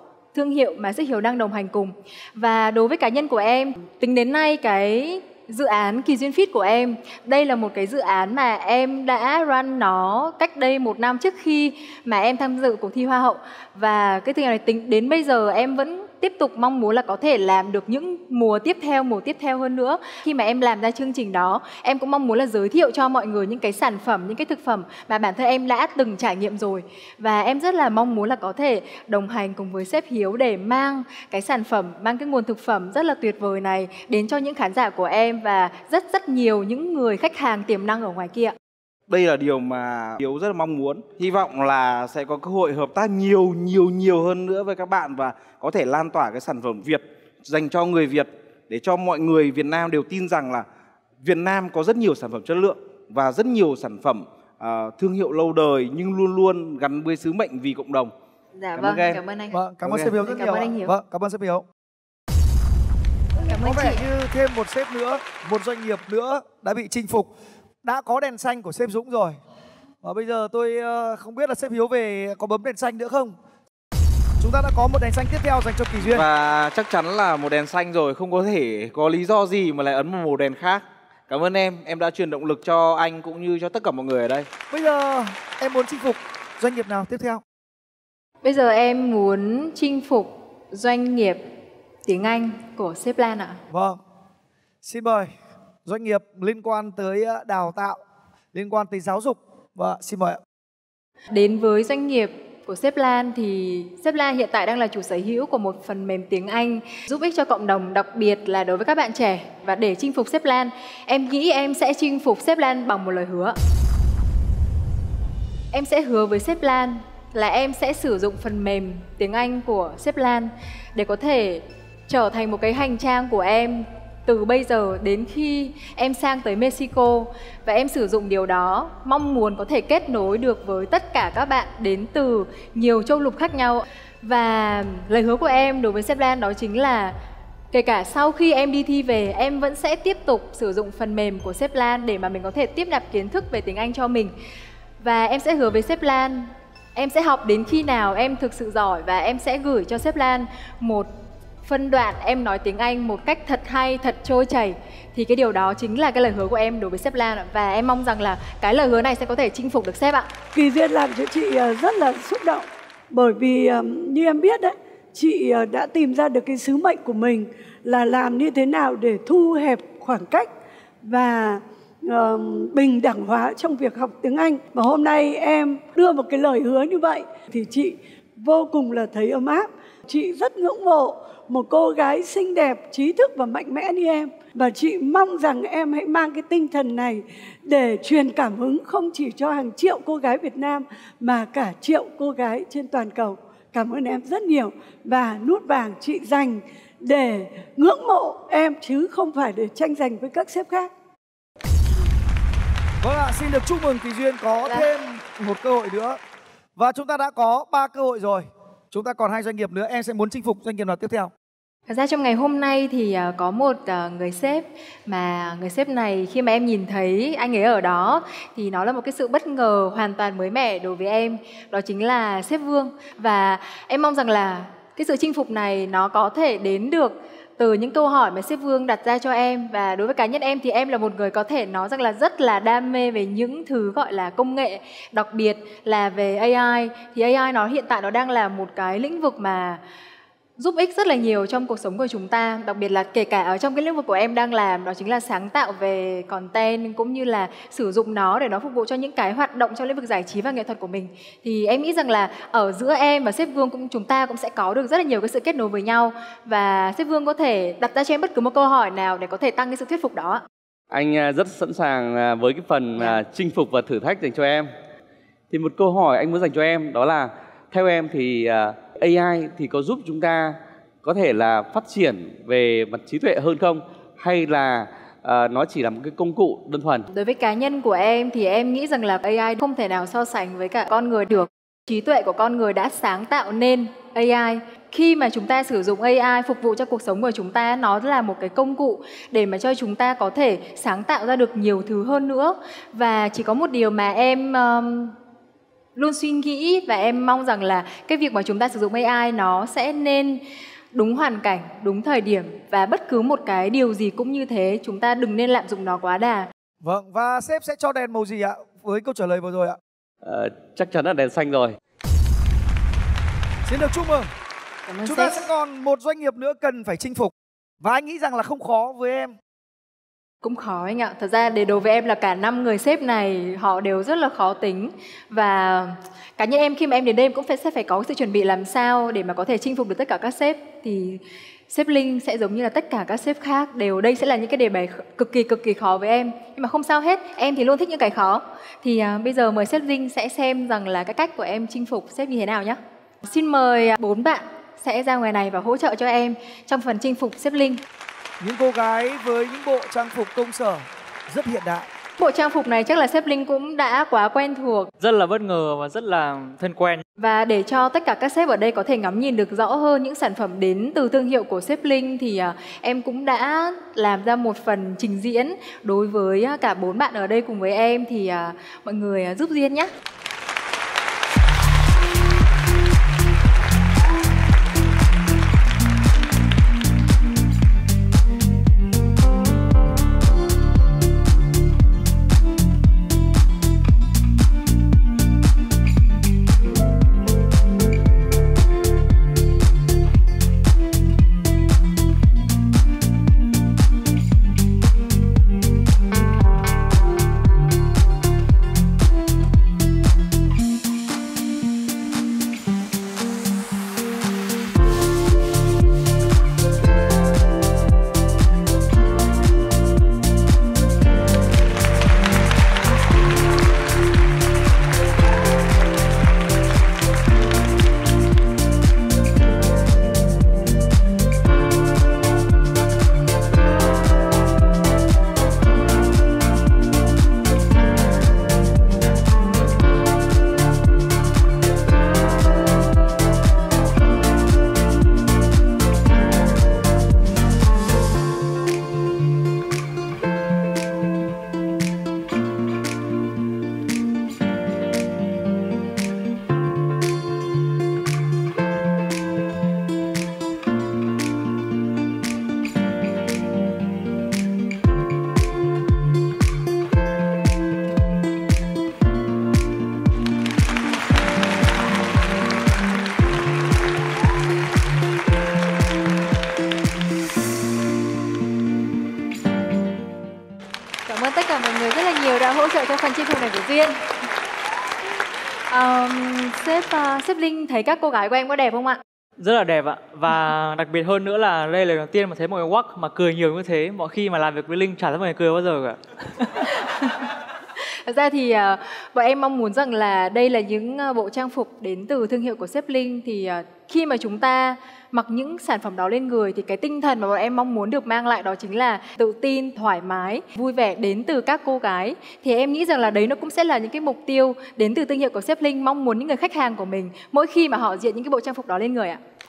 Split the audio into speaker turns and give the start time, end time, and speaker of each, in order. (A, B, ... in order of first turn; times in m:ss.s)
0:00.3-0:38.5 A
0:39.1-0:50.7 B
0:51.2-0:58.1 B
0:58.6-1:00.9 A
0:58.8-0:59.2 B
0:59.5-1:01.6 C
1:03.5-1:04.0 A
1:03.5-1:07.3 C
1:07.8-1:09.4 C
1:10.0-1:13.4 C
1:14.4-1:16.3 C
1:16.0-1:24.5 B
1:24.7-1:27.4 C
1:28.4-1:31.4 A
1:32.0-1:33.6 A
1:33.7-1:34.0 C
1:34.8-1:35.3 C
1:35.8-1:38.0 C
1:38.5-1:40.4 C
1:41.3-1:53.6 A
1:55.7-2:17.1 A
2:17.7-2:24.3 A
2:25.0-2:31.1 A
2:31.6-2:40.3 A
2:40.5-2:50.5 D
2:51.0-3:20.9 D
3:23.0-3:26.2 C
3:26.8-3:31.3 C
3:31.9-3:59.8 A
4:00.6-4:20.4 A
4:20.9-4:24.7 E
4:25.5-4:37.1 E
4:37.1-4:55.1 A
4:56.0-5:00.4 A
5:00.9-5:06.5 A
5:06.8-5:09.8 C
5:10.2-5:11.8 E
5:13.6-5:14.3 C
5:14.9-5:15.4 A
5:15.0-5:19.3 C
5:20.4-5:47.8 A
5:48.4-5:51.9 C
5:52.2-5:54.9 A
5:55.0-5:57.0 F
5:57.2-6:09.9 A
7:51.0-7:54.0 A
7:55.7-7:59.0 A
7:59.4-8:06.7 F
8:08.0-8:29.2 A